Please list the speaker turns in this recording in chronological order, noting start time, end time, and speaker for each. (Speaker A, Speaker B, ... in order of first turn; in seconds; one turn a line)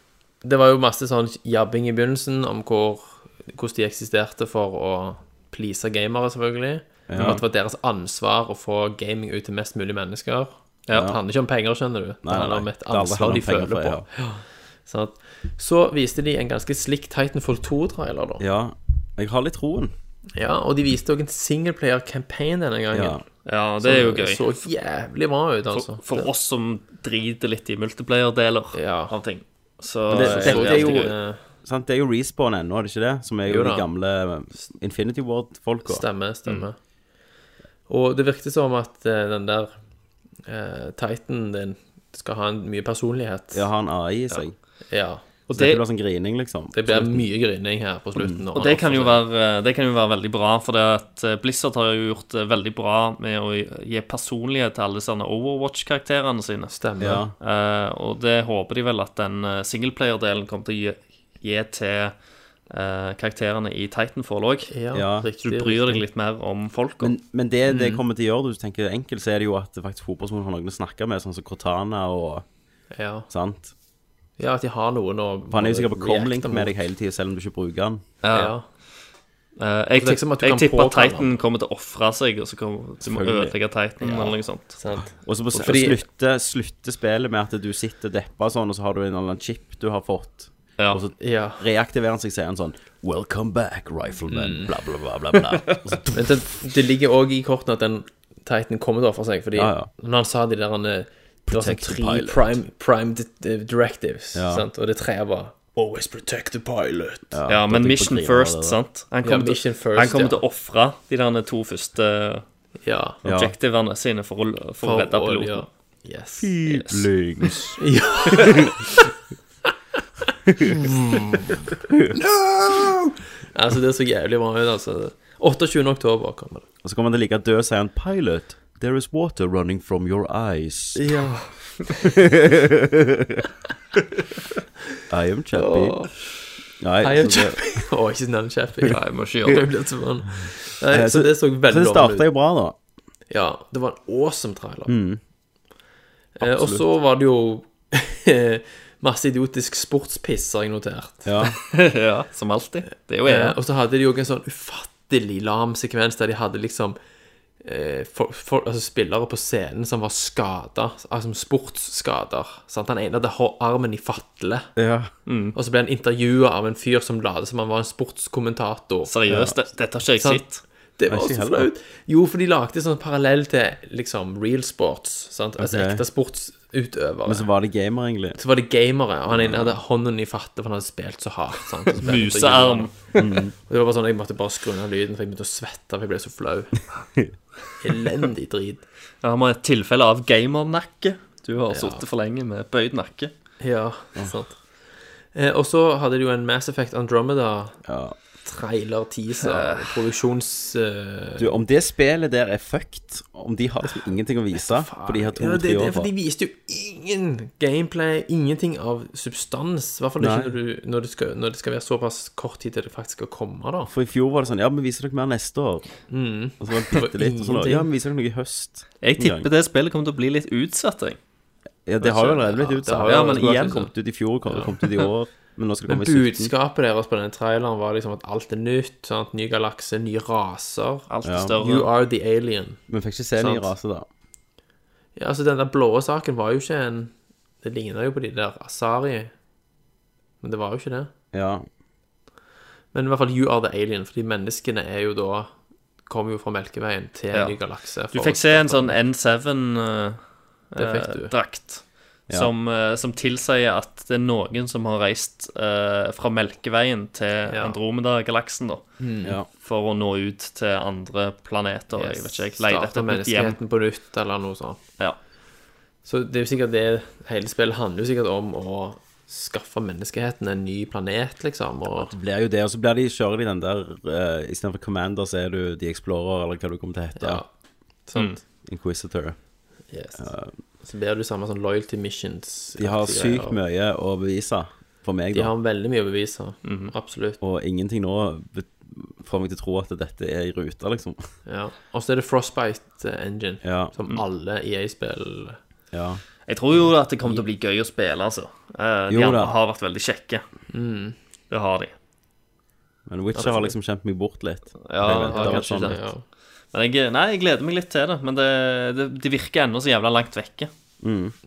Speaker A: 0.4-18.4
Speaker B: 7.1-7.4
Speaker C: 10.9-11.2
Speaker B: 10.9-11.2
Speaker B: 12.2-14.1
Speaker B: 18.4-19.9
Speaker A: 20.4-23.2
Speaker B: 22.9-23.2
Speaker C: 23.4-24.5
Speaker A: 23.8-26.3
Speaker C: 25.7-31.1
Speaker A: 28.7-29.1
Speaker A: 30.1-31.4
Speaker B: 30.1-36.0
Speaker A: 33.5-33.9
Speaker A: 35.9-36.8
Speaker A: 37.9-39.7
Speaker A: 40.5-43.7
Speaker B: 43.5-44.5
Speaker A: 44.3-45.2
Speaker C: 45.5-45.8
Speaker B: 45.5-47.2
Speaker A: 46.7-49.2
Speaker B: 48.2-48.4
Speaker C: 48.5-56.7
Speaker A: 56.7-57.2
Speaker B: 57.0-57.3
Speaker C: 57.4-62.1
Speaker C: 62.7-64.7
Speaker A: 64.7-66.0
Speaker B: 64.9-65.3
Speaker C: 65.4-67.2
Speaker B: 67.0-72.5
Speaker A: 67.7-68.0
Speaker A: 72.9-73.3
Speaker B: 73.3-73.7
Speaker A: 74.4-76.8
Speaker B: 75.5-78.0
Speaker C: 78.2-78.6
Speaker A: 78.3-78.7
Speaker C: 79.6-84.8
Speaker A: 80.0-81.3
Speaker B: 83.0-83.6
Speaker A: 84.0-86.0
Speaker B: 85.2-96.2
Speaker A: 91.2-91.6
Speaker A: 94.3-94.7
Speaker C: 95.3-96.1
Speaker A: 96.1-107.4
Speaker B: 99.5-99.9
Speaker B: 101.5-102.5
Speaker B: 104.3-104.7
Speaker B: 107.3-108.8
Speaker C: 107.5-112.5
Speaker A: 109.2-110.4
Speaker A: 112.8-113.2
Speaker B: 113.2-113.5
Speaker C: 113.2-115.6
Speaker A: 114.8-116.6
Speaker B: 116.4-118.8
Speaker C: 116.7-117.1
Speaker A: 117.8-119.1
Speaker B: 120.5-120.8
Speaker A: 120.6-126.6
Speaker B: 126.8-131.1
Speaker A: 131.0-132.1
Speaker B: 132.0-133.4
Speaker B: 135.1-136.0
Speaker A: 135.5-136.2
Speaker B: 136.8-137.6
Speaker A: 137.0-142.3
Speaker C: 138.9-139.6
Speaker B: 140.4-142.8
Speaker A: 143.3-144.9
Speaker B: 144.9-145.2
Speaker A: 146.4-151.3
Speaker B: 146.4-146.8
Speaker B: 151.2-151.6
Speaker C: 151.4-153.6
Speaker A: 153.2-157.0
Speaker A: 157.6-164.7
Speaker B: 164.8-165.1
Speaker C: 165.3-165.6
Speaker A: 165.6-169.1
Speaker C: 169.1-170.6
Speaker B: 169.3-169.6
Speaker A: 170.2-177.5
Speaker B: 171.1-171.7
Speaker B: 175.6-176.0
Speaker B: 177.3-178.4
Speaker A: 178.4-186.8
Speaker B: 179.3-179.8
Speaker C: 182.0-183.0
Speaker B: 183.2-183.5
Speaker A: 187.8-188.8
Speaker C: 189.2-193.3
Speaker A: 191.7-192.0
Speaker A: 193.6-194.6
Speaker A: 195.3-197.8
Speaker B: 197.8-198.2
Speaker A: 198.4-201.6
Speaker C: 199.4-200.1
Speaker B: 201.4-206.1
Speaker A: 203.8-213.9
Speaker B: 210.2-210.5
Speaker B: 213.9-215.9
Speaker A: 216.1-217.9
Speaker B: 216.6-219.5
Speaker C: 219.0-221.2
Speaker B: 221.9-226.5
Speaker A: 222.0-223.9
Speaker C: 223.0-223.8
Speaker A: 225.9-232.8
Speaker C: 231.1-231.9
Speaker B: 231.2-231.6
Speaker B: 232.9-234.1
Speaker A: 233.3-233.7
Speaker A: 235.2-239.3
Speaker A: 240.4-241.1
Speaker B: 241.3-241.7
Speaker A: 242.9-245.5
Speaker A: 246.0-249.0
Speaker C: 248.1-250.2
Speaker C: 250.7-258.9
Speaker A: 250.8-251.3
Speaker A: 257.5-257.8
Speaker A: 259.0-259.4
Speaker C: 259.6-263.6
Speaker A: 261.9-264.8
Speaker A: 266.1-272.1
Speaker B: 271.9-277.4
Speaker A: 277.1-277.5
Speaker A: 278.1-278.4
Speaker B: 278.6-279.4
Speaker A: 279.9-280.3
Speaker B: 280.2-280.6
Speaker A: 280.8-283.6
Speaker B: 282.8-285.5
Speaker A: 285.3-287.4
Speaker C: 286.6-286.9
Speaker B: 287.4-291.3
Speaker A: 291.5-295.6
Speaker B: 293.6-293.9
Speaker B: 295.9-296.2
Speaker C: 296.5-300.4
Speaker B: 299.1-299.5
Speaker A: 300.7-301.2
Speaker C: 301.5-301.9
Speaker B: 303.1-306.0
Speaker A: 303.4-303.7
Speaker C: 304.9-306.1
Speaker A: 305.1-306.2
Speaker C: 306.7-310.7
Speaker B: 311.0-311.3